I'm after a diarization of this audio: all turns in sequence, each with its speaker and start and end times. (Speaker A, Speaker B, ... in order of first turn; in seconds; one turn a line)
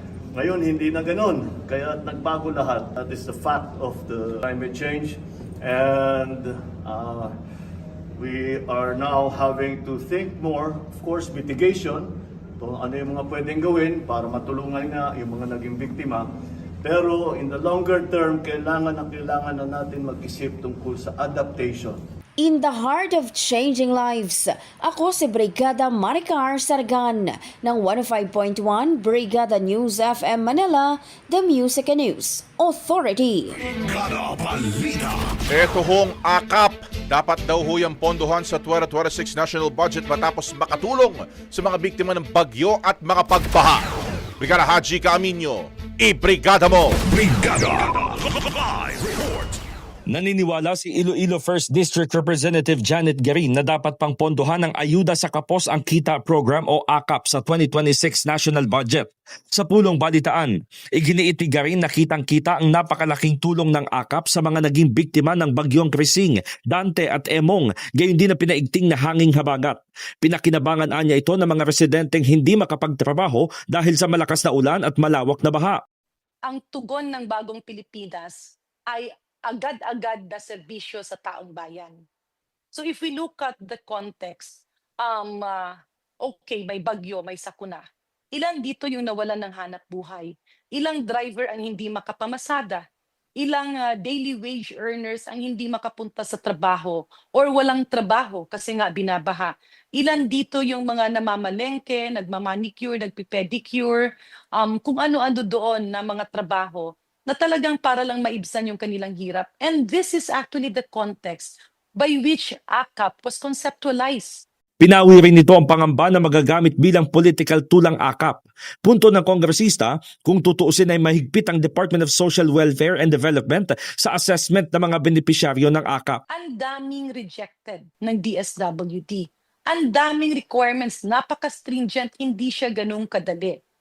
Speaker A: 0.3-7.3
Speaker A: 8.2-16.3
Speaker A: 16.8-22.0
Speaker B: 22.4-33.6
Speaker C: 33.6-35.4
Speaker D: 35.5-43.9
Speaker D: 44.4-47.0
Speaker C: 47.1-49.6
Speaker E: 50.1-75.8
Speaker F: 76.5-82.0
Speaker F: 82.7-92.8
Speaker F: 93.4-114.4
Speaker E: 114.8-126.2
Speaker F: 126.3-133.6